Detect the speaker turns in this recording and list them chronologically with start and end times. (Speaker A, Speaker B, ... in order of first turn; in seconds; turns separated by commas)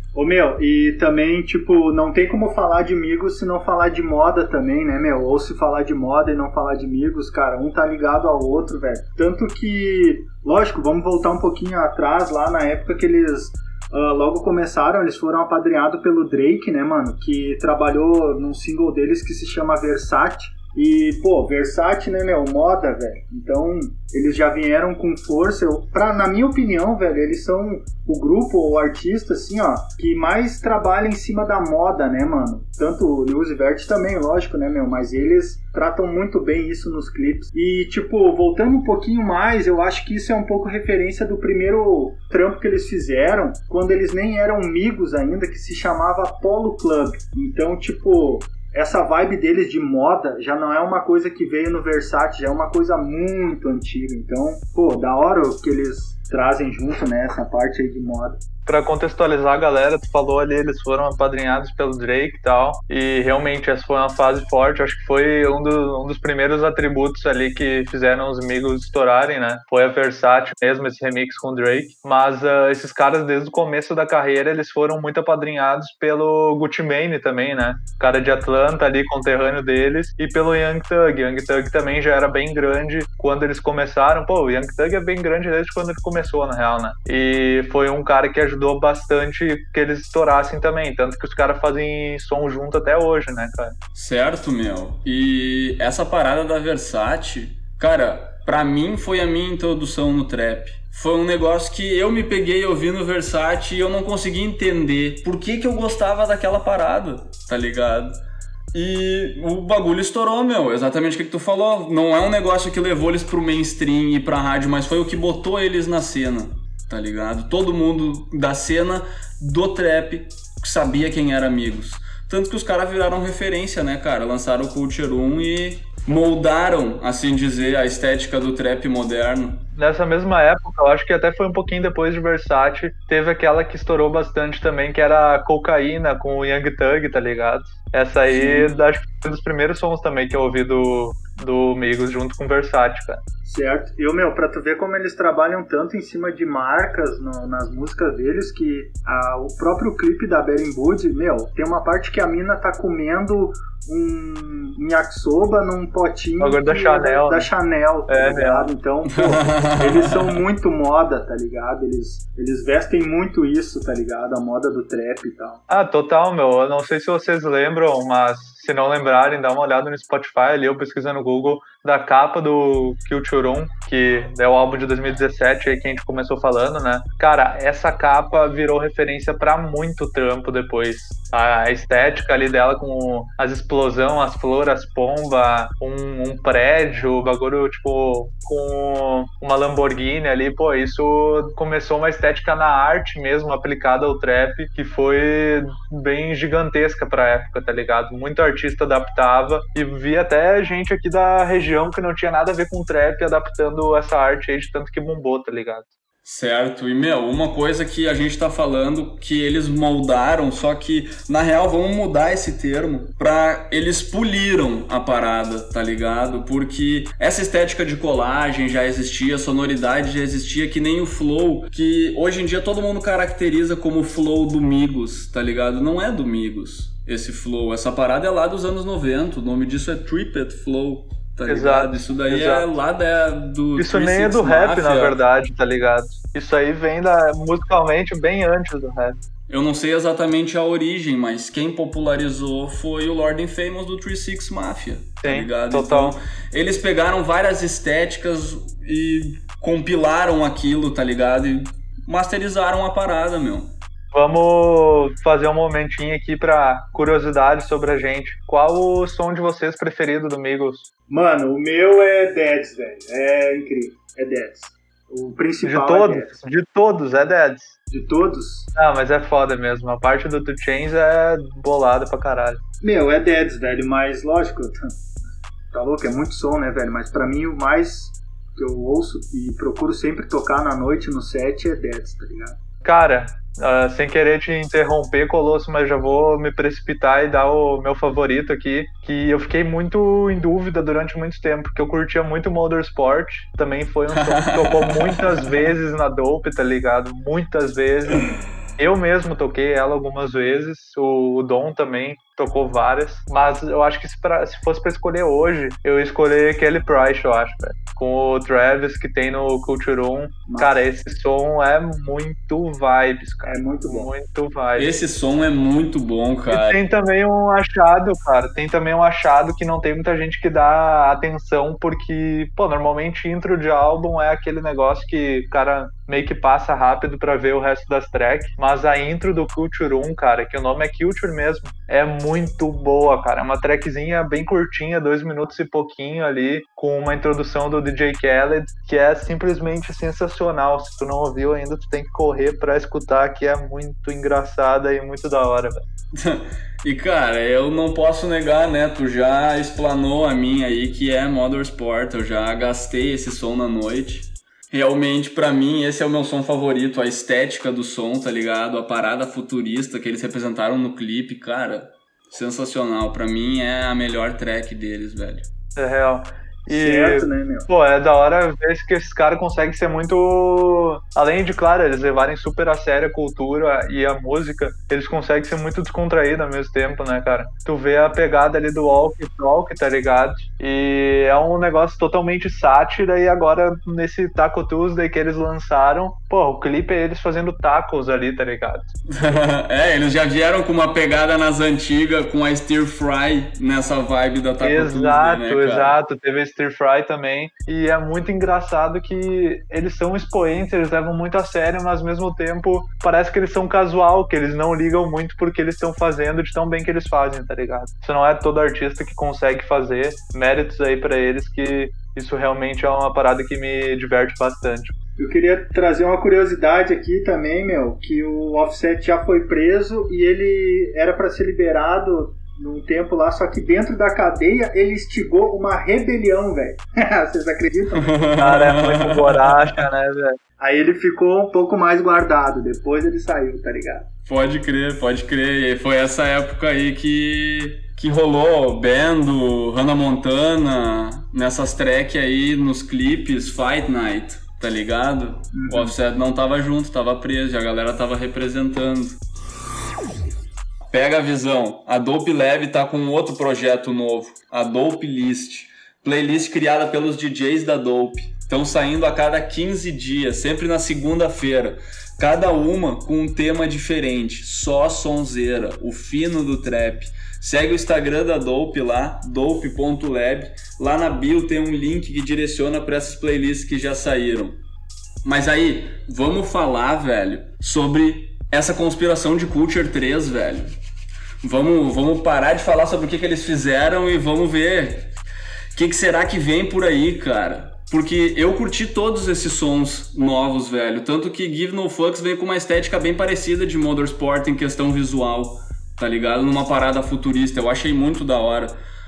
Speaker A: 0.1-58.4, Speaker B: 58.6-93.7, Speaker C: 93.9-108.2, Speaker C: 108.7-129.6, Speaker B: 129.7-143.2, Speaker A: 138.3-138.7, Speaker A: 143.4-165.6, Speaker B: 156.4-157.5, Speaker B: 158.1-158.8, Speaker C: 159.2-160.4, Speaker B: 165.7-205.9, Speaker C: 206.2-235.2, Speaker B: 231.5-232.8, Speaker B: 233.7-239.2, Speaker C: 239.5-253.7, Speaker B: 245.2-246.2, Speaker B: 254.1-260.9, Speaker A: 261.1-266.4, Speaker B: 265.6-267.8, Speaker A: 267.9-268.7, Speaker B: 268.8-272.6, Speaker A: 272.8-274.8, Speaker A: 275.7-282.6, Speaker B: 282.8-298.2, Speaker C: 294.1-295.7, Speaker B: 298.8-314.9, Speaker A: 310.5-310.8, Speaker A: 313.4-314.1, Speaker C: 314.8-316.9, Speaker B: 316.5-345.8, Speaker C: 346.1-365.4, Speaker B: 365.8-388.9, Speaker A: 366.7-367.7, Speaker C: 389.2-396.0, Speaker B: 394.6-414.9, Speaker A: 415.2-428.2, Speaker C: 427.9-429.8, Speaker B: 428.4-430.3, Speaker A: 430.6-434.1, Speaker C: 434.3-449.2, Speaker A: 445.5-445.9, Speaker C: 450.9-474.6, Speaker C: 475.2-480.7, Speaker C: 481.4-485.1, Speaker C: 485.7-498.7